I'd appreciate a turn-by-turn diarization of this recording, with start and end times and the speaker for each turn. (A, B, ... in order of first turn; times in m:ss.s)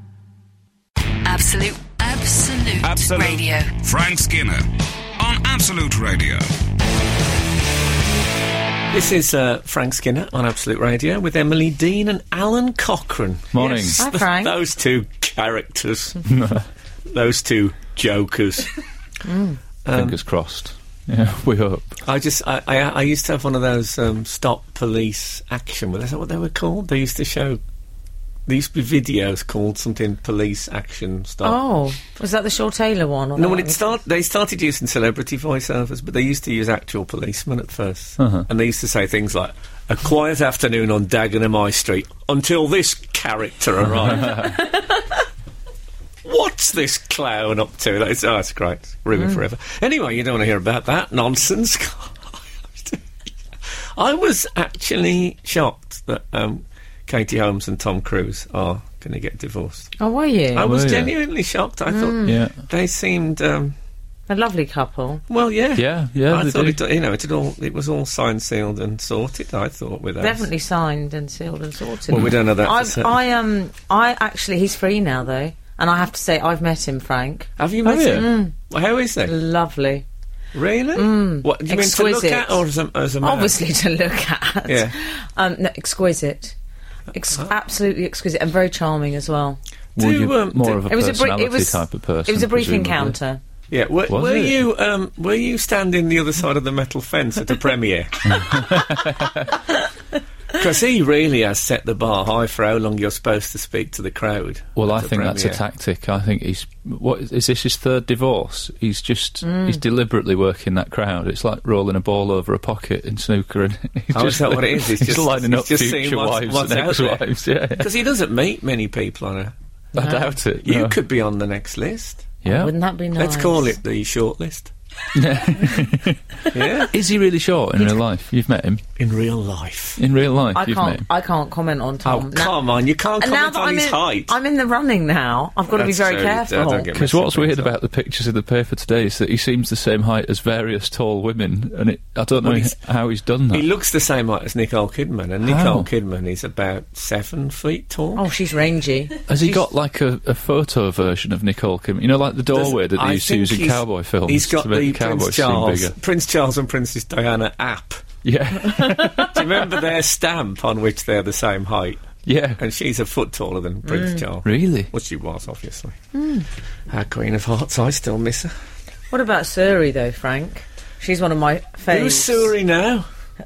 0:01.2-0:03.7 A
0:02.8-0:06.5 B
0:08.9-0:16.3 C
0:13.5-0:14.0 D
0:14.0-0:14.5 E
0:16.2-0:16.6 D
0:17.1-0:18.7 C
0:19.2-0:19.6 E
0:19.8-0:20.2 C
0:19.9-0:22.0 D
0:22.0-0:27.6 C
0:28.4-0:31.6 C
0:31.4-0:33.9 E
0:33.4-0:44.6 C
0:38.2-0:38.4 D
0:44.5-0:44.9 E
0:46.2-0:53.0 C
0:54.0-0:59.9 C
1:00.0-1:00.7 E
1:00.5-1:03.7 C
1:00.6-1:01.1 D
1:01.9-1:02.4 E
1:02.2-1:02.5 D
1:04.3-1:05.2 E
1:05.3-1:10.4 C
1:05.7-1:06.8 D
1:10.2-1:17.5 E
1:12.1-1:13.1 C
1:17.6-1:19.3 C
1:17.8-1:18.3 D
1:18.0-1:18.5 E
1:19.2-1:20.0 E
1:20.5-1:23.5 C
1:20.9-1:22.6 E
1:23.2-1:26.6 E
1:24.7-1:24.9 C
1:27.1-1:29.6 E
1:30.0-1:30.8 C
1:30.0-1:33.2 D
1:30.8-1:33.4 E
1:33.7-1:38.7 C
1:34.1-1:34.6 D
1:38.4-1:39.5 D
1:40.5-1:45.6 C
1:44.8-1:57.9 D
1:49.4-1:49.8 E
1:54.1-2:02.3 C
1:59.9-2:01.0 D
2:02.4-2:02.7 D
2:02.5-2:03.7 E
2:03.2-2:04.7 C
2:05.1-2:08.8 D
2:06.5-2:06.9 C
2:09.0-2:10.0 C
2:10.0-2:11.0 D
2:10.5-2:12.6 E
2:12.0-2:14.3 C
2:13.2-2:16.9 E
2:15.7-2:17.7 C
2:16.9-2:23.6 D
2:22.4-2:22.8 C
2:23.5-2:28.3 C
2:25.4-2:25.9 D
2:28.2-2:29.6 E
2:29.3-2:35.9 D
2:32.5-2:38.0 C
2:38.2-2:39.5 D
2:39.3-2:46.0 C
2:42.2-2:42.6 D
2:43.8-2:44.2 E
2:44.4-2:44.9 D
2:46.1-2:46.5 E
2:46.9-2:48.5 C
2:49.1-2:52.5 E
2:51.9-2:53.1 C